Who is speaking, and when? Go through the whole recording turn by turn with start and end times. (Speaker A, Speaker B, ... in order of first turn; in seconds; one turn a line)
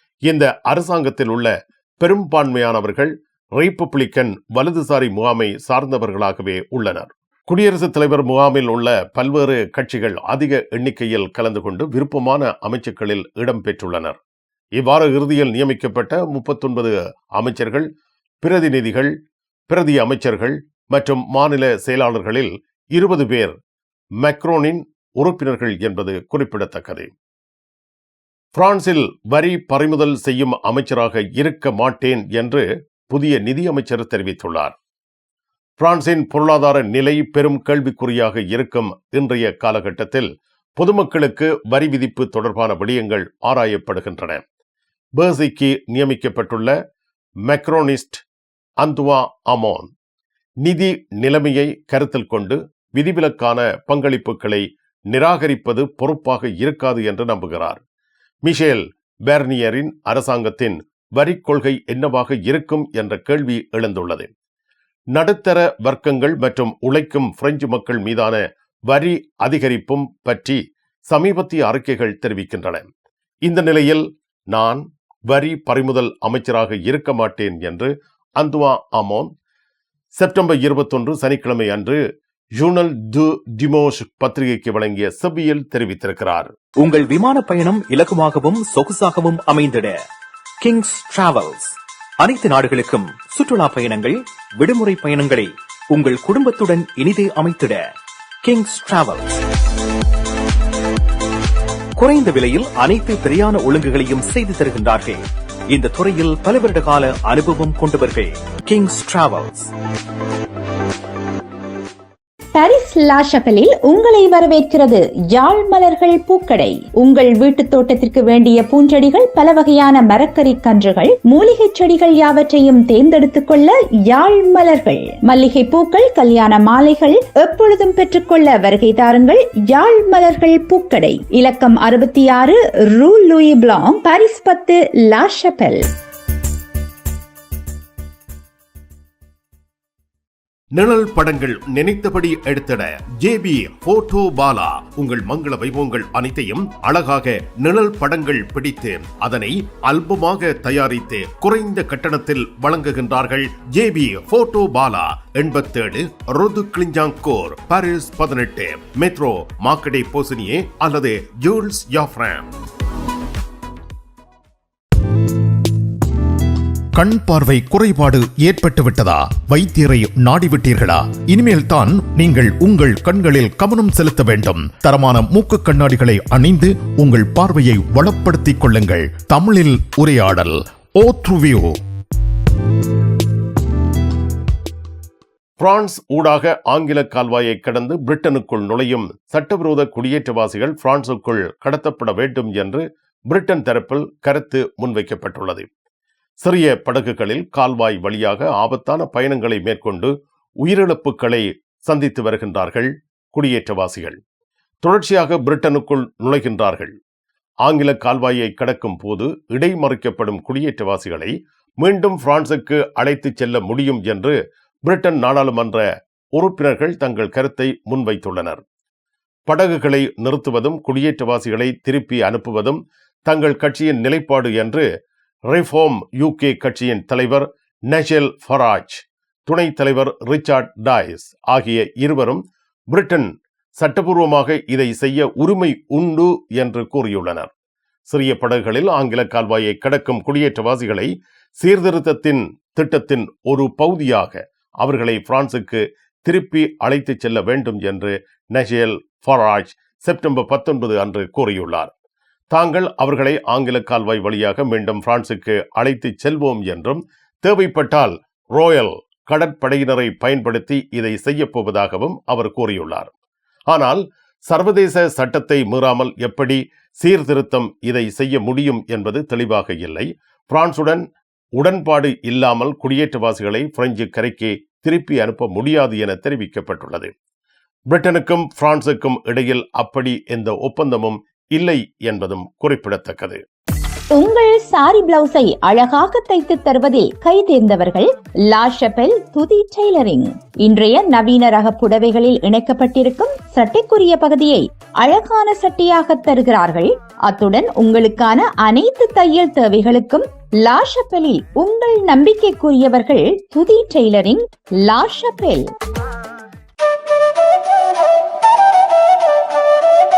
Speaker A: 0.2-14.2
Speaker A: 14.7-17.9
Speaker A: 18.4-19.1
Speaker A: 19.7-23.6
Speaker A: 24.2-27.1
Speaker A: 28.5-34.7
Speaker A: 35.8-44.4
Speaker A: 45.1-46.7
Speaker A: 47.4-48.2
Speaker A: 48.8-49.9
Speaker A: 50.6-57.8
Speaker A: 58.4-64.3
Speaker A: 65.1-72.9
Speaker A: 73.4-79.3
Speaker A: 80.1-82.0
Speaker A: 82.5-86.5
Speaker B: 86.8-90.0
Speaker B: 90.6-97.8
Speaker B: 98.4-99.4
Speaker B: 102.0-109.7
Speaker C: 112.5-135.9
Speaker A: 140.7-162.5
Speaker D: 167.0-168.2
Speaker A: 167.4-170.6
Speaker D: 169.3-172.6
Speaker A: 172.1-174.2
Speaker D: 173.3-180.4
Speaker A: 177.1-177.7
Speaker A: 178.2-178.7
Speaker A: 179.9-180.2
Speaker D: 181.1-181.4
Speaker A: 181.3-181.6
Speaker A: 185.6-195.7
Speaker A: 196.4-204.2
Speaker A: 204.8-206.9
Speaker A: 207.6-218.6
Speaker A: 219.5-224.8
Speaker A: 225.5-237.5
Speaker A: 238.1-251.9
Speaker A: 252.5-263.1
Speaker A: 263.7-271.0
Speaker A: 271.6-277.1
Speaker A: 277.9-283.4
Speaker C: 284.1-305.7